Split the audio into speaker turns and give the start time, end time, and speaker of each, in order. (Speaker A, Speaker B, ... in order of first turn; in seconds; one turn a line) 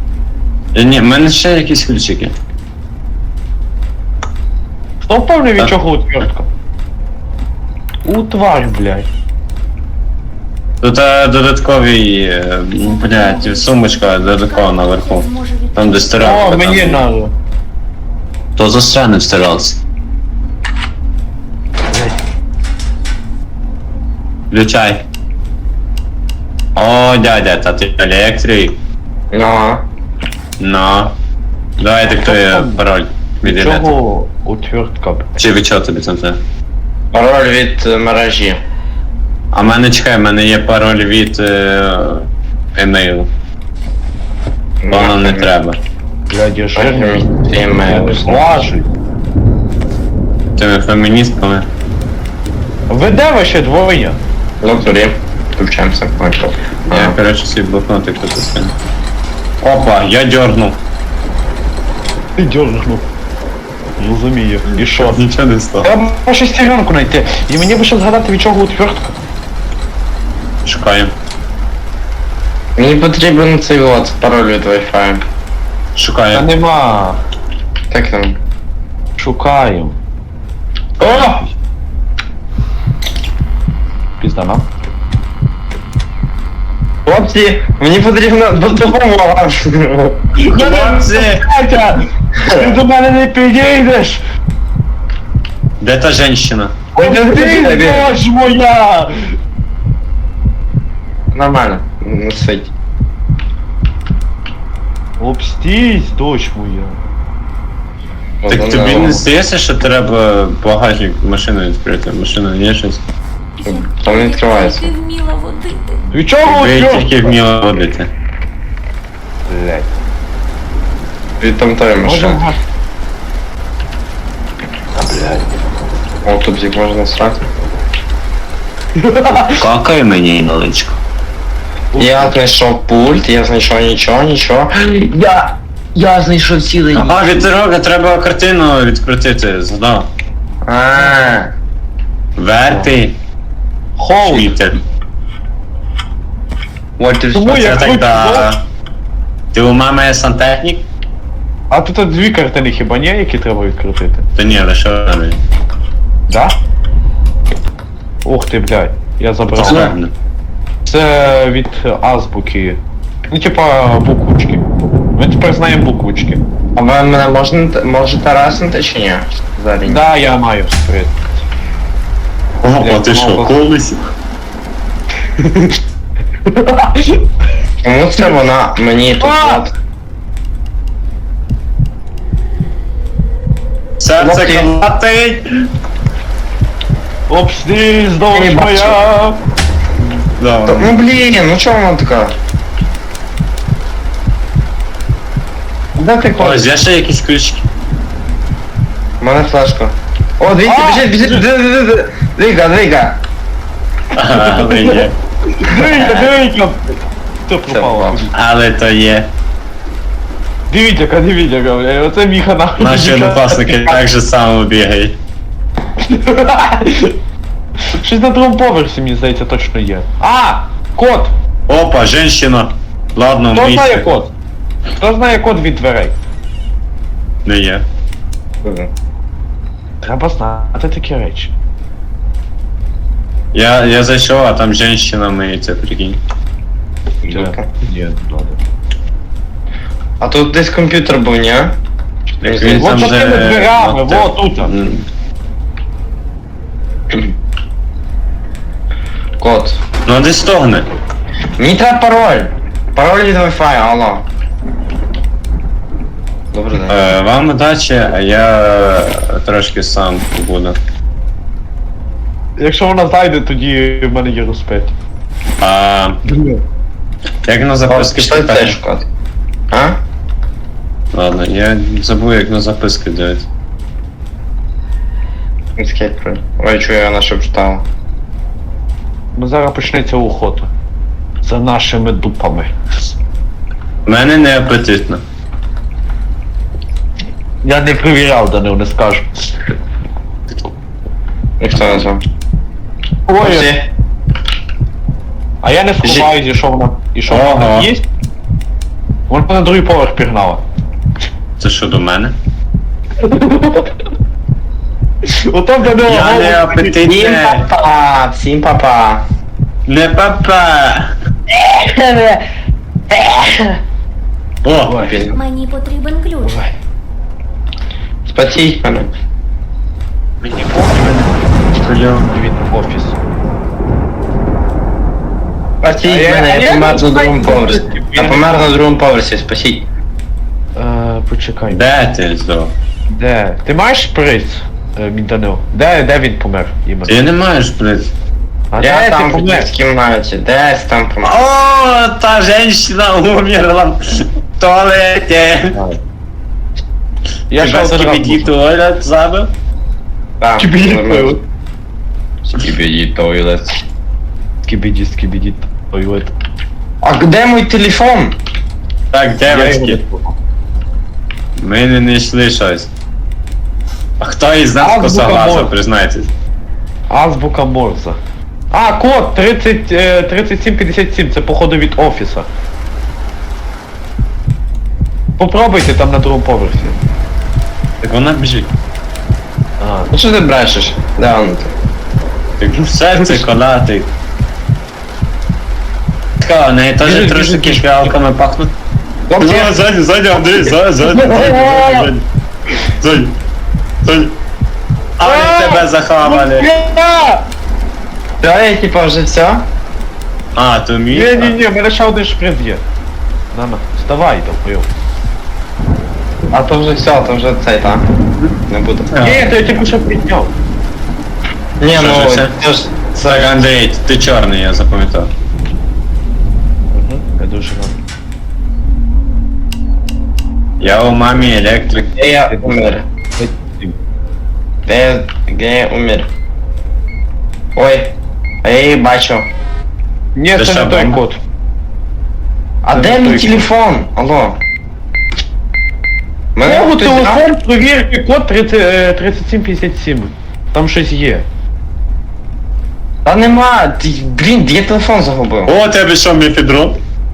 Speaker A: 0.7-2.3
Speaker B: 5.0-6.5
Speaker B: 8.0-9.1
Speaker A: 10.8-17.0
Speaker C: 12.8-16.4
Speaker B: 16.2-17.3
Speaker A: 18.6-19.8
Speaker A: 24.5-25.0
Speaker A: 26.8-28.8
Speaker D: 29.3-29.9
Speaker A: 30.6-31.1
Speaker A: 31.8-33.9
Speaker B: 32.1-32.8
Speaker B: 33.4-35.3
Speaker A: 35.4-36.4
Speaker D: 37.1-38.6
Speaker A: 39.5-43.3
Speaker D: 44.8-45.5
Speaker A: 44.9-45.8
Speaker B: 46.3-47.2
Speaker D: 46.8-48.7
Speaker B: 47.8-48.9
Speaker A: 50.6-51.7
Speaker B: 52.9-54.2
Speaker D: 54.6-57.1
Speaker A: 56.9-58.7
Speaker A: 59.6-60.8
Speaker B: 62.4-63.0
Speaker B: 64.0-65.2
Speaker A: 64.8-65.9
Speaker B: 65.8-69.2
Speaker A: 70.6-71.1
Speaker D: 72.8-75.2
Speaker A: 75.9-76.5
Speaker B: 76.3-77.2
Speaker D: 77.9-78.4
Speaker B: 79.2-80.0
Speaker B: 81.0-81.5
Speaker D: 81.0-81.4
Speaker B: 84.2-84.6
Speaker D: 87.0-90.2
Speaker B: 90.4-94.2
Speaker A: 90.5-91.4
Speaker A: 95.8-96.8
Speaker B: 96.9-99.1
Speaker D: 97.0-98.2
Speaker D: 101.3-102.7
Speaker B: 105.2-107.0
Speaker D: 108.4-109.2
Speaker A: 108.5-113.0
Speaker C: 113.6-116.1
Speaker D: 113.6-114.9
Speaker B: 116.1-117.4
Speaker A: 116.4-118.1
Speaker B: 119.5-119.9
Speaker D: 121.4-122.4
Speaker B: 122.0-122.6
Speaker B: 124.9-125.5
Speaker D: 126.2-127.5
Speaker B: 129.0-129.6
Speaker A: 129.3-131.0
Speaker B: 131.9-132.3
Speaker D: 132.0-134.7
Speaker E: 134.8-137.4
Speaker A: 136.9-140.1
Speaker D: 140.6-141.5
Speaker B: 140.9-141.3
Speaker A: 142.4-143.2
Speaker B: 144.0-144.5
Speaker A: 144.2-144.8
Speaker D: 147.0-147.5
Speaker B: 147.3-148.5
Speaker A: 147.5-148.6
Speaker A: 149.5-150.8
Speaker B: 151.7-154.2
Speaker A: 154.3-155.4
Speaker B: 156.3-156.6
Speaker B: 158.2-159.9
Speaker A: 159.5-160.1
Speaker B: 160.8-166.4
Speaker D: 166.8-170.1
Speaker B: 169.8-171.2
Speaker A: 172.6-174.0
Speaker D: 172.8-173.6
Speaker B: 176.5-177.2
Speaker D: 177.8-179.7
Speaker B: 179.2-179.7
Speaker A: 184.0-185.5
Speaker D: 184.2-184.7
Speaker B: 187.3-189.4
Speaker D: 188.3-189.0
Speaker A: 190.4-191.0
Speaker D: 190.7-192.3
Speaker D: 196.0-196.6
Speaker A: 196.4-197.7
Speaker D: 199.2-203.2
Speaker B: 200.6-201.4
Speaker A: 204.1-205.2
Speaker B: 204.4-205.0
Speaker B: 205.6-206.9
Speaker D: 205.7-206.3
Speaker B: 207.5-208.3
Speaker D: 207.7-208.2
Speaker A: 208.3-209.3
Speaker B: 210.7-214.0
Speaker A: 212.8-215.2
Speaker B: 216.1-217.1
Speaker B: 217.9-221.3
Speaker A: 221.7-224.1
Speaker B: 223.5-224.3
Speaker B: 225.0-226.1
Speaker A: 227.4-227.8
Speaker D: 228.6-228.9
Speaker B: 230.0-231.5
Speaker A: 233.5-236.2
Speaker B: 237.2-238.6
Speaker D: 237.2-237.7
Speaker D: 240.2-241.8
Speaker A: 242.4-245.1
Speaker D: 242.4-243.0
Speaker B: 242.7-244.7
Speaker D: 249.4-249.8
Speaker A: 250.0-250.9
Speaker D: 251.6-254.3
Speaker D: 256.5-257.0
Speaker A: 256.9-260.8
Speaker B: 262.6-264.9
Speaker A: 265.6-266.2
Speaker B: 266.3-266.6
Speaker A: 267.4-268.8
Speaker D: 267.9-269.1
Speaker D: 269.7-270.0
Speaker A: 271.1-273.4
Speaker D: 275.8-277.9
Speaker B: 279.3-280.7
Speaker B: 281.4-282.7
Speaker A: 284.1-285.2
Speaker B: 287.6-289.3
Speaker D: 291.6-292.2
Speaker B: 293.3-293.7
Speaker D: 293.4-293.9
Speaker B: 295.6-298.0
Speaker A: 297.3-297.9
Speaker B: 299.3-300.6
Speaker A: 301.6-302.4
Speaker B: 303.2-303.9
Speaker B: 305.2-306.8
Speaker A: 305.9-307.6
Speaker D: 306.9-309.3
Speaker A: 309.9-311.1
Speaker B: 311.6-312.4
Speaker B: 313.1-313.6
Speaker A: 314.6-315.1
Speaker B: 314.8-315.2
Speaker D: 315.0-315.4
Speaker C: 315.3-316.6
Speaker B: 316.4-316.7
Speaker D: 318.2-319.1
Speaker A: 320.4-322.3
Speaker B: 320.7-321.4
Speaker B: 322.1-323.1
Speaker D: 325.8-329.8
Speaker B: 326.1-328.7
Speaker B: 330.8-331.8
Speaker A: 331.7-332.7
Speaker B: 333.1-337.2
Speaker A: 337.1-338.1
Speaker B: 338.7-339.7
Speaker D: 338.8-341.4
Speaker A: 341.2-345.8
Speaker B: 345.7-346.0
Speaker B: 347.5-348.5
Speaker A: 347.6-349.5
Speaker D: 350.4-351.3
Speaker B: 350.6-351.4
Speaker D: 352.4-353.8
Speaker B: 354.6-356.3
Speaker D: 357.0-358.4
Speaker A: 359.1-360.0
Speaker B: 359.5-360.3
Speaker A: 361.6-362.9
Speaker A: 364.2-366.3
Speaker B: 364.8-365.7
Speaker B: 367.1-368.2
Speaker B: 368.7-372.5
Speaker B: 375.4-377.0
Speaker A: 378.0-378.7
Speaker B: 379.8-380.1
Speaker D: 380.1-381.7
Speaker A: 382.6-384.1
Speaker A: 386.4-388.7
Speaker B: 387.0-388.1
Speaker D: 389.3-389.7
Speaker A: 389.4-392.2
Speaker D: 391.2-391.6
Speaker B: 391.6-392.1
Speaker A: 393.0-393.4
Speaker A: 394.0-394.4
Speaker A: 395.2-396.7
Speaker B: 395.2-397.4
Speaker D: 398.4-399.7
Speaker A: 400.5-401.6
Speaker B: 401.1-402.8
Speaker B: 403.5-404.9
Speaker D: 406.5-408.1
Speaker D: 408.7-409.1
Speaker A: 409.1-409.4
Speaker B: 409.2-410.5
Speaker D: 411.8-413.5
Speaker A: 411.9-412.6
Speaker A: 413.2-415.3
Speaker B: 416.9-417.9
Speaker A: 420.8-422.1
Speaker D: 422.1-423.0
Speaker B: 422.5-422.8
Speaker B: 423.4-423.9
Speaker D: 424.9-426.3
Speaker D: 427.7-429.5
Speaker B: 430.3-431.4
Speaker A: 430.6-431.2
Speaker B: 432.9-433.7
Speaker D: 432.9-434.6
Speaker D: 436.5-437.4
Speaker B: 436.6-441.4
Speaker D: 443.2-445.7
Speaker A: 445.6-447.0